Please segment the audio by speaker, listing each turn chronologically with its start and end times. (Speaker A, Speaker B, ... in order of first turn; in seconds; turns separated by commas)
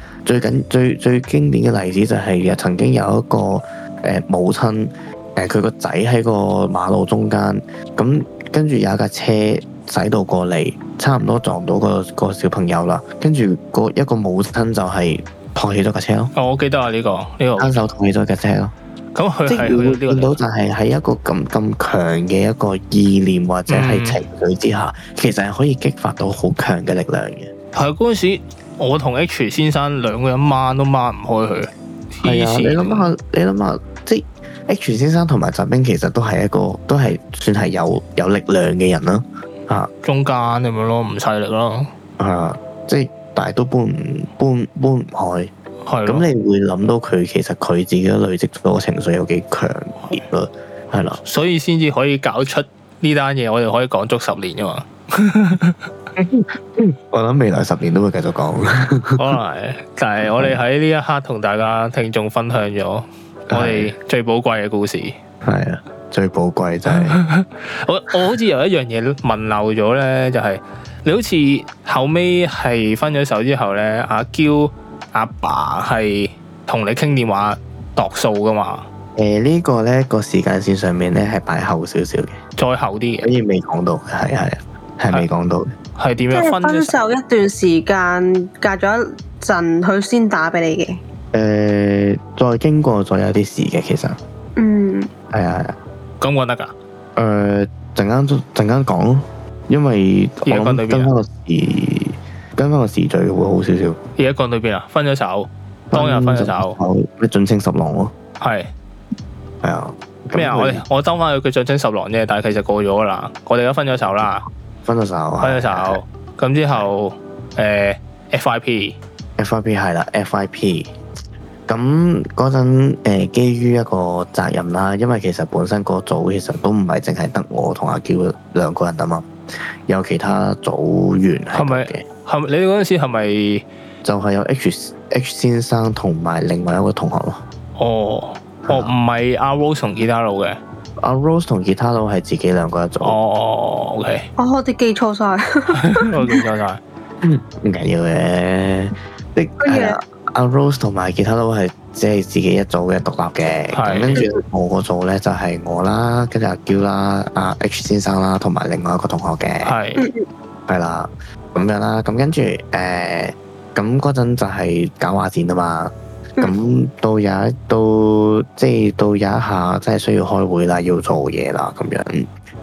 Speaker A: 0.2-16.3, Speaker B: 16.4-17.8, Speaker A: 17.6-18.7, Speaker B: 19.1-20.4, Speaker A: 19.5-27.5, Speaker B: 23.7-24.2, Speaker B: 27.7-33.1, Speaker A: 32.2-39.9, Speaker B: 40.0-41.9, Speaker A: 42.2-45.5, Speaker B: 45.9-46.3, Speaker A: 46.1-51.2, Speaker B: 51.2-55.8, Speaker A: 56.2-59.3, Speaker B: 59.2-65.2, Speaker A: 60.2-60.6, Speaker A: 63.5-63.9, Speaker A: 65.4-67.2, Speaker B: 66.9-78.8, Speaker A: 79.2-82.4, Speaker B: 82.6-83.3, Speaker A: 83.2-85.7, Speaker B: 86.0-87.0, Speaker C: 86.3-91.0, Speaker A: 91.3-94.2, Speaker C: 94.6-95.1, Speaker A: 95.3-95.8, Speaker B: 96.2-96.7, Speaker A: 97.2-104.0, Speaker B: 100.5-101.1, Speaker B: 104.2-106.8, Speaker A: 105.9-108.1, Speaker B: 108.4-108.7, Speaker A: 109.6-110.8, Speaker B: 110.3-114.5, Speaker A: 114.8-116.0, Speaker B: 115.4-119.0, Speaker A: 119.4-120.9, Speaker A: 121.7-129.3, Speaker A: 129.9-132.0, Speaker B: 131.5-133.7, Speaker A: 134.0-137.4, Speaker B: 137.8-140.6, Speaker A: 138.7-138.9, Speaker A: 141.0-143.2, Speaker B: 143.0-144.3, Speaker C: 144.4-146.4, Speaker B: 145.8-146.8, Speaker A: 147.2-159.8, Speaker C: 149.6-150.0, Speaker B: 153.7-154.2, Speaker C: 154.1-154.4, Speaker B: 159.6-160.1, Speaker C: 160.0-160.2, Speaker A: 160.7-172.3